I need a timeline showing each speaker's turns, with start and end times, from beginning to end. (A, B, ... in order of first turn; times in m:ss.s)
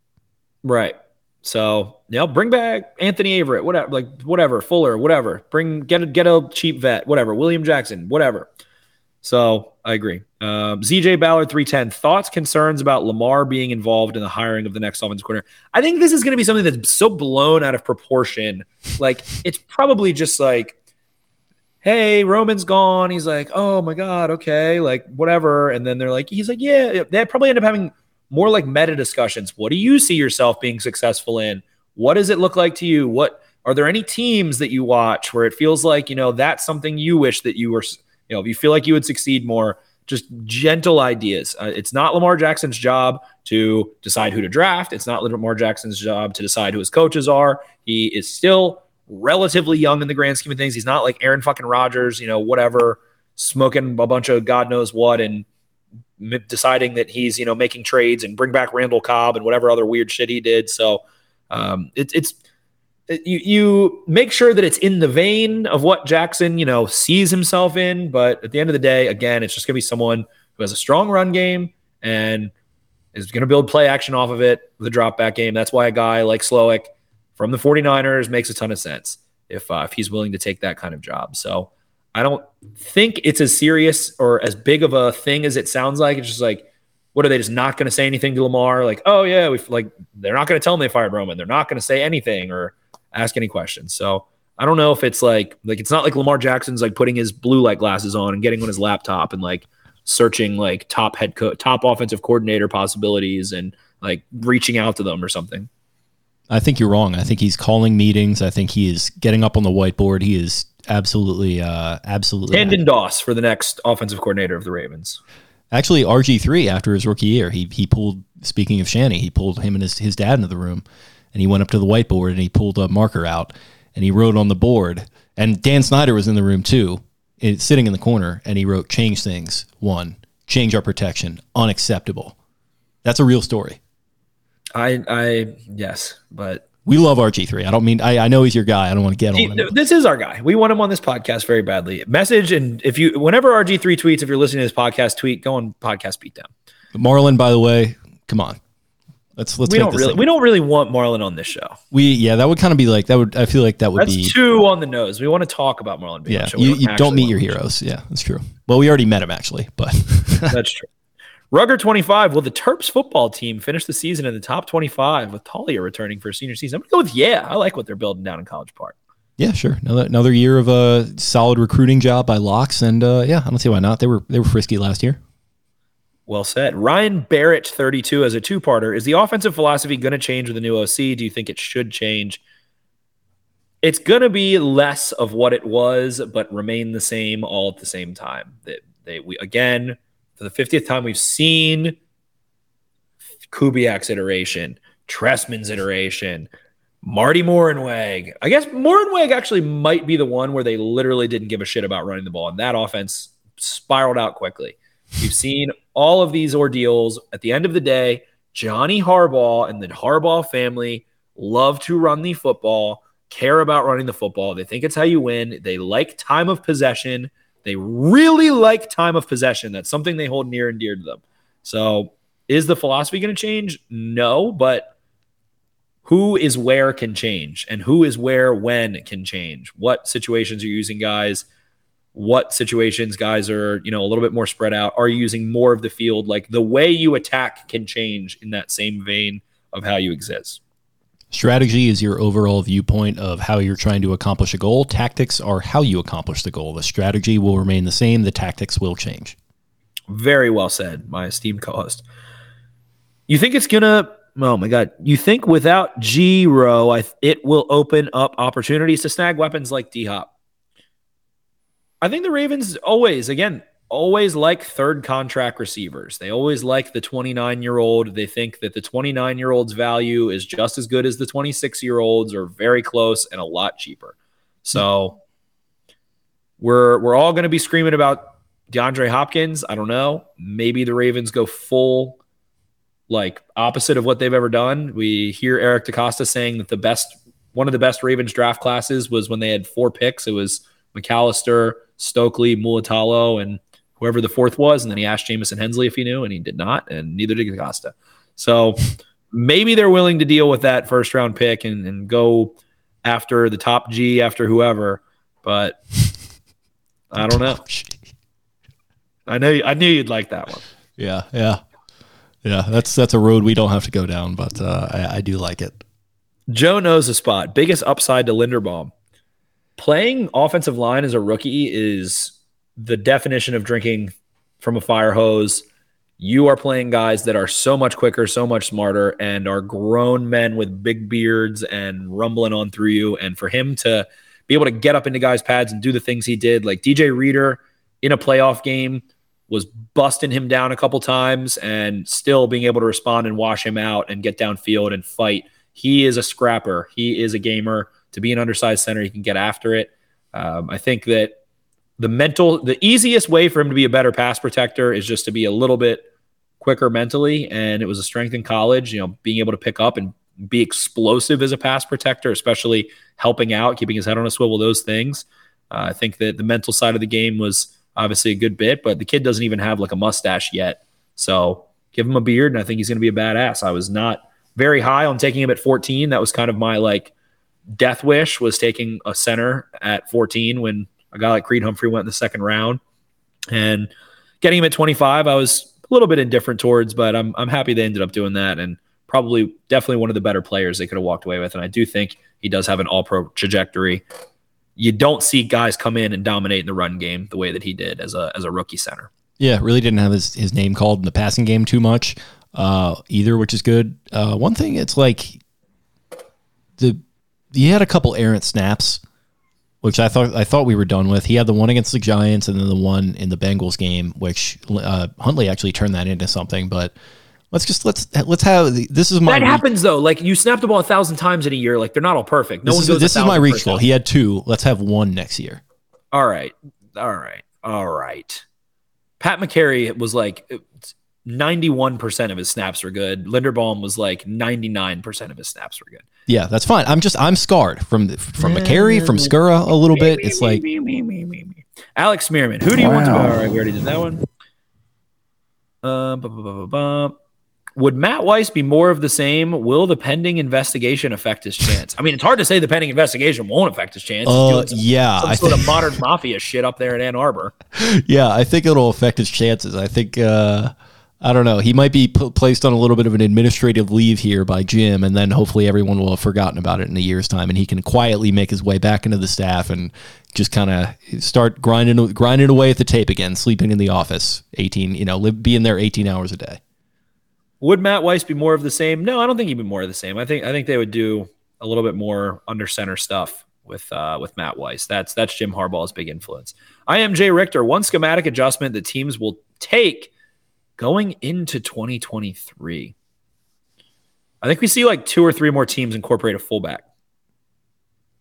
0:00.6-0:08.5 A
0:09.2-0:20.7 A
0:21.8-0:55.4 A
0:56.2-1:02.4 A
1:03.1-1:12.5 A
1:13.1-1:45.7 A
1:46.5-1:52.8 B
1:52.5-1:55.2 A
1:55.7-2:12.3 B
2:13.0-2:13.8 B
2:14.7-2:16.6 A
2:16.8-2:19.8 B
2:19.3-2:26.5 A
2:26.9-2:28.6 B
2:29.4-2:30.2 B
2:29.7-2:31.8 A
2:31.9-2:34.3 B
2:34.0-2:37.6 A
2:36.3-2:40.6 B
2:40.5-2:40.9 A
2:41.5-2:49.0 A
2:49.4-2:55.2 B
2:56.3-3:02.4 A
3:03.8-3:12.0 A
3:13.5-3:16.5 A
3:17.0-3:44.9 A
3:46.0-3:51.4 A
3:52.1-4:00.6 A
4:01.3-4:09.4 B
4:10.1-4:12.0 A
4:13.3-4:20.3 A
4:22.0-4:35.2 A
4:36.6-4:42.2 A
4:43.1-5:05.8 A
5:07.1-5:07.6 A
5:07.2-5:08.0 B
5:09.3-5:10.6 A
5:11.0-5:11.6 B
5:12.4-5:15.8 B
5:16.5-5:18.9 A
5:19.8-5:25.6 A
5:26.2-5:51.3 A
5:52.0-5:56.0 A
5:56.6-6:17.1 A
6:17.7-6:22.8 A
6:23.5-6:34.0 A
6:34.8-6:39.1 A
6:39.4-6:45.4 B
6:47.5-6:49.0 B
6:49.8-6:56.9 B
6:57.5-6:59.6 B
6:59.2-7:03.8 A
7:02.6-7:05.6 B
7:06.1-7:08.4 A
7:09.2-7:16.0 A
7:16.3-7:20.6 B
7:18.4-7:19.3 A
7:19.9-7:24.2 A
7:22.9-7:23.1 B
7:25.8-7:27.1 A
7:27.8-7:37.5 A
7:34.2-7:35.8 B
7:37.7-7:56.6 B
7:57.6-8:10.1 A
8:10.8-8:12.9 A
8:14.4-8:16.8 A